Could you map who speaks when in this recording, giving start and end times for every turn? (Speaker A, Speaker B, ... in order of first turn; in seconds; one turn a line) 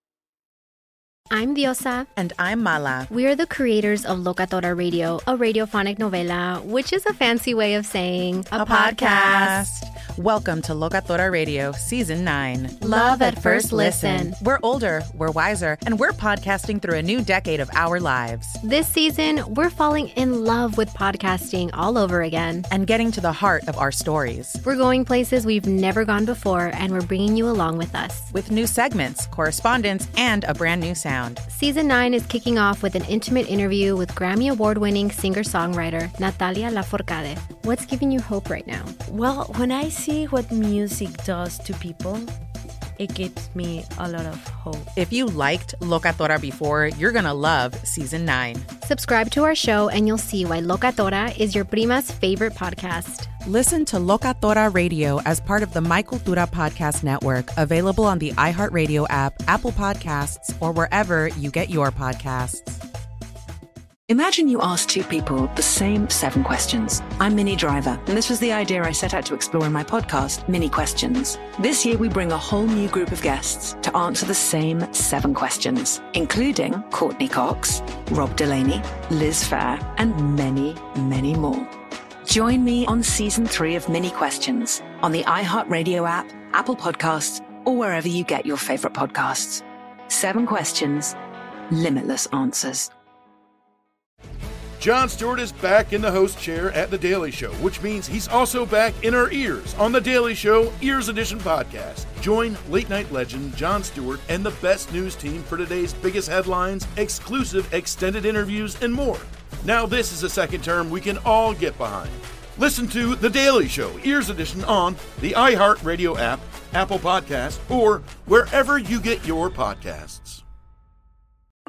Speaker A: 1.3-2.1
Speaker B: 2.1-3.1
Speaker A: 3.1-9.6
Speaker B: 8.5-18.6
Speaker A: 12.8-14.3
Speaker A: 18.6-22.7
Speaker B: 22.7-24.6
Speaker A: 24.6-28.3
Speaker B: 28.3-31.4
Speaker A: 31.5-39.0
Speaker C: 39.0-42.3
Speaker C: 43.0-44.9
Speaker B: 44.9-48.7
Speaker A: 48.8-53.3
Speaker B: 53.4-62.8
Speaker D: 64.1-81.7
Speaker D: 82.2-91.2
Speaker D: 91.7-92.9
Speaker E: 94.8-120.4